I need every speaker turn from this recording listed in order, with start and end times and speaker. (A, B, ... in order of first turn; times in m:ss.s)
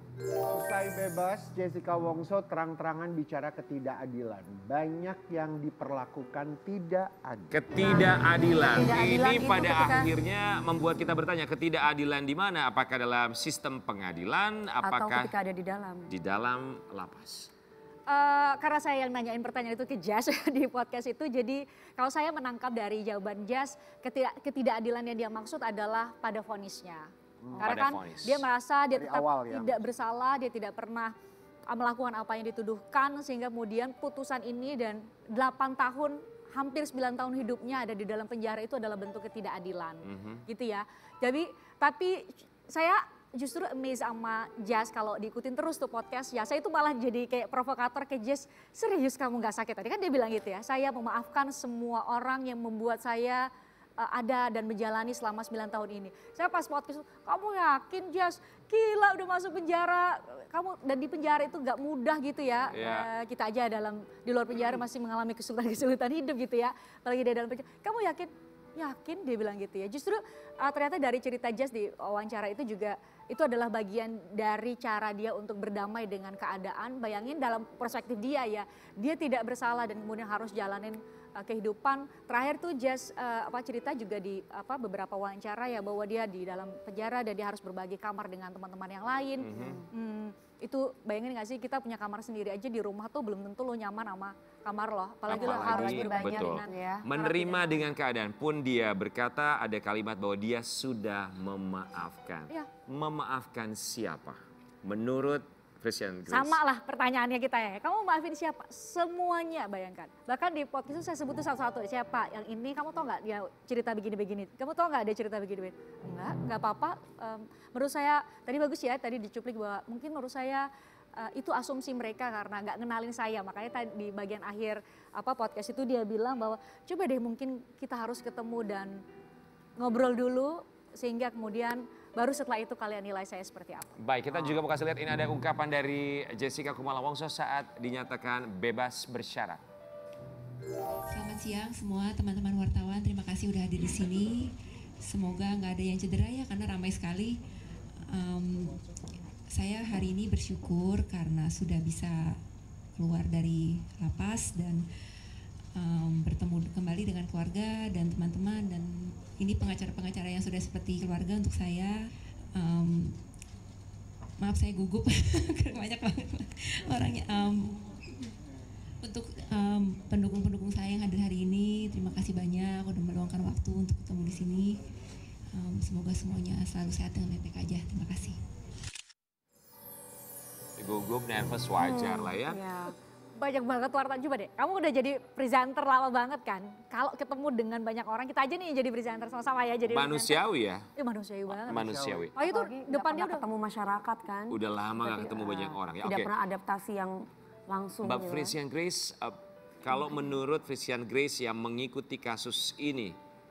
0:00.5-0:07.6 A
0:07.5-0:15.3 B
0:07.8-0:10.1 C
0:14.8-0:16.1 C
0:16.1-0:17.5 B
0:18.1-0:31.1 D
0:27.4-0:27.8 A
0:27.6-0:28.4 B
0:28.9-0:29.7 A
0:31.7-0:53.5 D
0:40.0-0:40.4 B
0:54.0-1:37.8 D
1:02.7-1:03.1 B
1:29.4-1:29.8 B
1:35.3-1:46.6 B
1:35.3-1:37.0 C
1:46.3-2:09.0 D
2:09.8-2:14.0 D
2:14.0-2:19.6 B
2:21.1-2:27.4 E
2:28.1-2:28.8 E
2:29.5-2:32.4 E
2:33.0-2:34.8 E
2:35.7-2:41.9 E
2:42.5-2:43.2 E
2:44.4-2:48.1 E
2:49.0-2:54.8 E
2:55.5-2:58.4 E
3:00.8-3:02.6 B
3:01.8-3:02.9 C
3:03.4-3:10.4 D
3:09.9-3:10.8 B
3:11.0-3:11.8 D
3:11.5-3:12.3 B
3:11.7-3:12.3 A
3:12.4-3:13.4 D
3:12.4-3:18.6 C
3:14.5-3:16.3 B
3:18.0-3:23.2 B